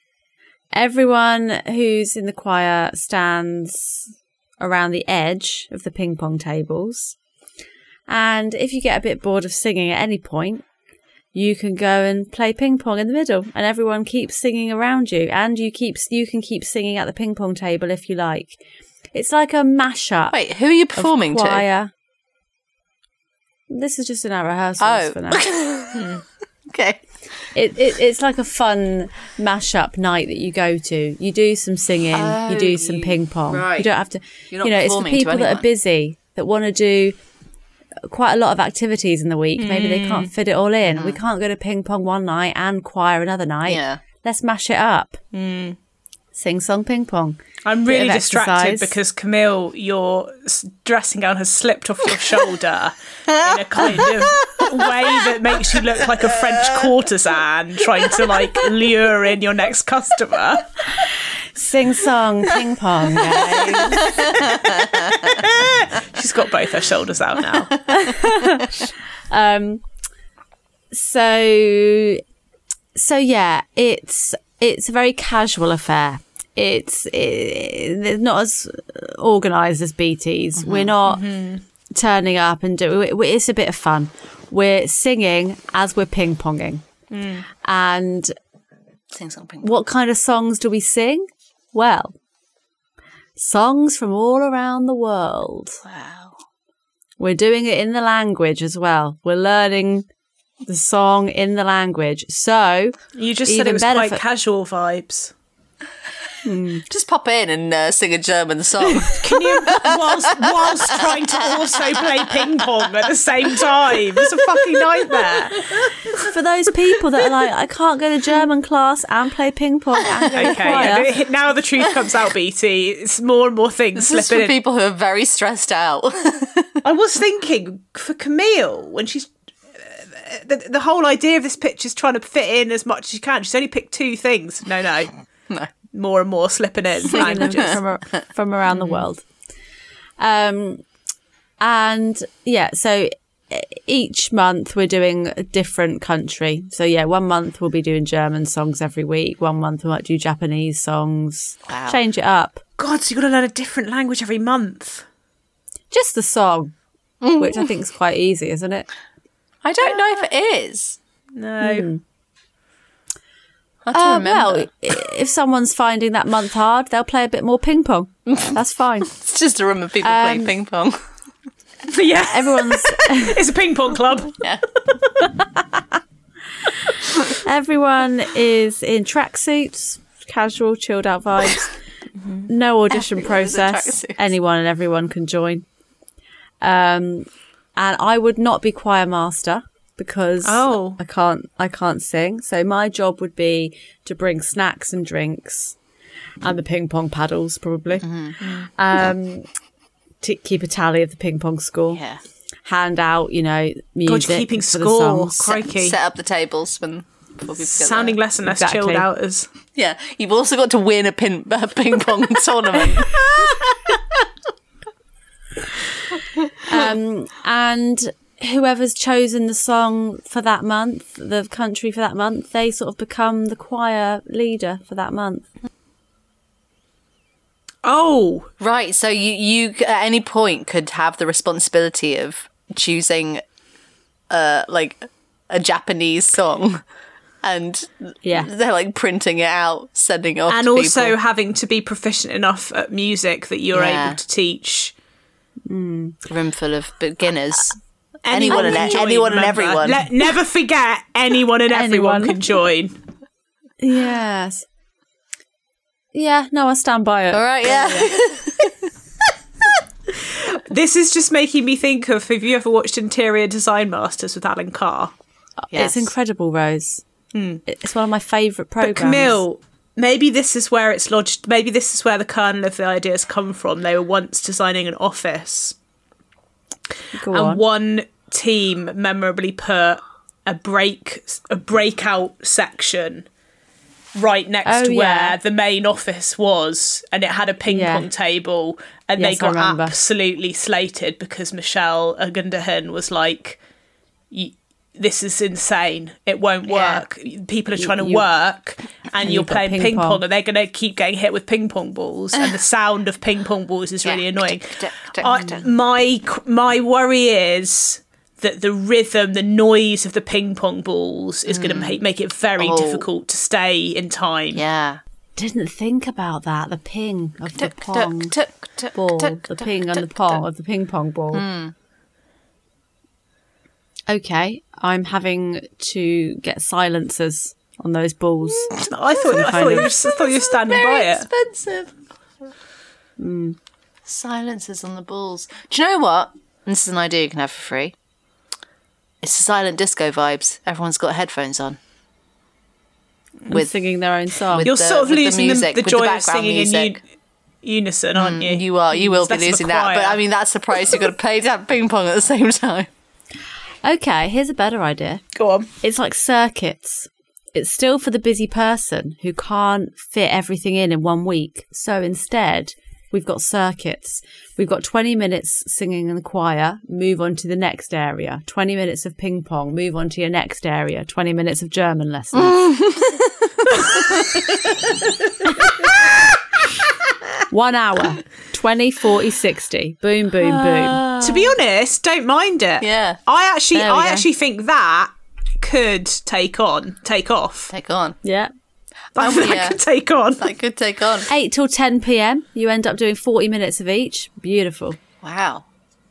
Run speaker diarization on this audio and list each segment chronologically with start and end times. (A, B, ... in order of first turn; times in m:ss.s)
0:00.7-0:07.2 A
0:08.1-0:10.6 A
0:11.3-0:18.6 A
0:19.1-0:20.4 A
0:20.3-0:21.6 B
0:21.0-0:21.9 A
0:23.7-0:25.5 A
0:24.8-0:26.1 B
0:26.0-0:26.2 C
0:26.7-0:27.0 B
0:27.5-0:37.2 A
0:32.1-0:33.9 B
0:34.5-0:35.7 B
0:38.0-0:45.2 A
0:39.6-0:40.3 C
0:40.8-0:41.2 B
0:43.6-0:44.0 B
0:45.3-0:45.8 C
0:46.3-0:48.9 A
0:47.6-1:00.7 C
0:53.3-0:56.9 B
1:01.6-1:04.2 A
1:03.8-1:05.4 B
1:04.4-1:07.8 C
1:07.9-1:09.8 A
1:10.9-1:12.2 A
1:13.0-1:21.2 A
1:20.6-1:20.9 B
1:21.0-1:21.6 C
1:21.9-1:26.8 A
1:27.1-1:27.4 C
1:27.6-1:28.3 A
1:29.1-1:29.7 B
1:29.6-1:32.1 A
1:33.4-1:35.8 A
1:35.8-1:36.4 B
1:37.2-1:40.0 A
1:40.6-1:44.2 A
1:43.1-1:45.3 C
1:46.4-1:46.8 A
1:46.9-1:52.6 B
1:49.2-1:55.9 C
1:54.2-1:55.9 B
1:56.2-2:01.1 A
2:00.2-2:01.0 B
2:00.3-2:04.5 C
2:04.0-2:06.8 B
2:06.8-2:15.1 C
2:15.9-2:17.8 C
2:17.0-2:19.2 A
2:17.1-2:17.8 B
2:18.8-2:19.0 B
2:20.2-2:20.8 A
2:21.6-2:32.6 A
2:31.7-2:32.0 B
2:32.8-2:35.0 C
2:35.9-2:36.7 A
2:37.2-2:37.7 B
2:37.4-2:38.9 A
2:39.6-2:41.0 B
2:41.3-2:41.9 C
2:41.6-2:42.0 A
2:43.8-2:44.7 B
2:43.9-2:49.1 A
2:49.1-2:51.0 B
2:50.0-2:50.5 A
2:51.9-2:54.4 C
2:52.1-2:53.4 A
2:57.3-3:01.7 A
3:02.5-3:05.6 A
3:02.9-3:04.3 B
3:06.6-3:15.8 A
3:10.4-3:11.0 C
3:16.4-3:18.0 A
3:18.0-3:18.4 B
3:18.4-3:18.7 C
3:18.8-3:19.5 A
3:20.2-3:22.0 A
3:21.9-3:22.2 B
3:22.6-3:25.6 A
3:24.1-3:26.0 C
3:25.6-3:28.2 B
3:27.6-3:29.5 C
3:28.4-3:29.1 A
3:29.7-3:34.2 B
3:36.6-3:45.4 A
3:47.8-3:48.5 C
3:48.6-3:53.4 B
3:54.3-3:56.8 B
3:57.4-4:01.2 B
3:58.2-3:58.5 A
4:00.5-4:04.9 C
4:03.7-4:04.2 B
4:05.7-4:06.2 A
4:06.3-4:07.8 B
4:08.2-4:13.0 C
4:08.3-4:10.1 B
4:08.4-4:09.0 A
4:11.7-4:12.4 A
4:13.8-4:14.6 A
4:16.1-4:18.1 A
4:17.3-4:18.9 B
4:20.2-4:25.1 C
4:25.6-4:27.0 A
4:25.7-4:26.1 B
4:27.3-4:27.6 C
4:27.6-4:29.4 A
4:28.8-4:35.7 C
4:37.1-4:37.6 A
4:37.3-4:43.3 C
4:44.1-4:53.6 C
4:44.6-4:45.4 A
4:47.7-4:48.1 A
4:49.2-4:50.0 A
4:54.3-5:14.6 C
4:56.7-4:57.0 B
4:57.8-4:58.3 A
4:59.2-5:00.2 A
5:04.0-5:05.7 B
5:11.5-5:12.0 B
5:12.6-5:13.1 B
5:14.5-5:15.0 B
5:15.4-5:18.3 A
5:17.6-5:20.4 B
5:19.0-5:21.4 A
5:21.3-5:21.7 B
5:24.1-5:29.9 A
5:28.7-5:31.3 C
5:29.5-5:31.9 B
5:33.2-5:33.6 A
5:34.0-5:37.9 B
5:39.2-5:41.8 B
5:43.5-5:44.7 A
5:44.5-5:47.0 B
5:44.6-5:47.0 C
5:47.6-5:50.2 C
5:48.2-5:52.9 B
5:53.8-5:55.2 A
5:55.3-5:55.7 C
5:55.8-6:12.7 A
6:12.3-6:15.3 B
6:17.5-6:21.0 A
6:20.4-6:21.6 B
6:21.2-6:27.7 C
6:22.8-6:23.2 B
6:23.7-6:24.3 A
6:27.7-6:28.2 B
6:28.2-6:28.5 A
6:29.2-6:29.8 B
6:29.2-6:30.4 C
6:30.4-6:31.3 B
6:31.3-6:35.0 A
6:35.2-6:35.6 B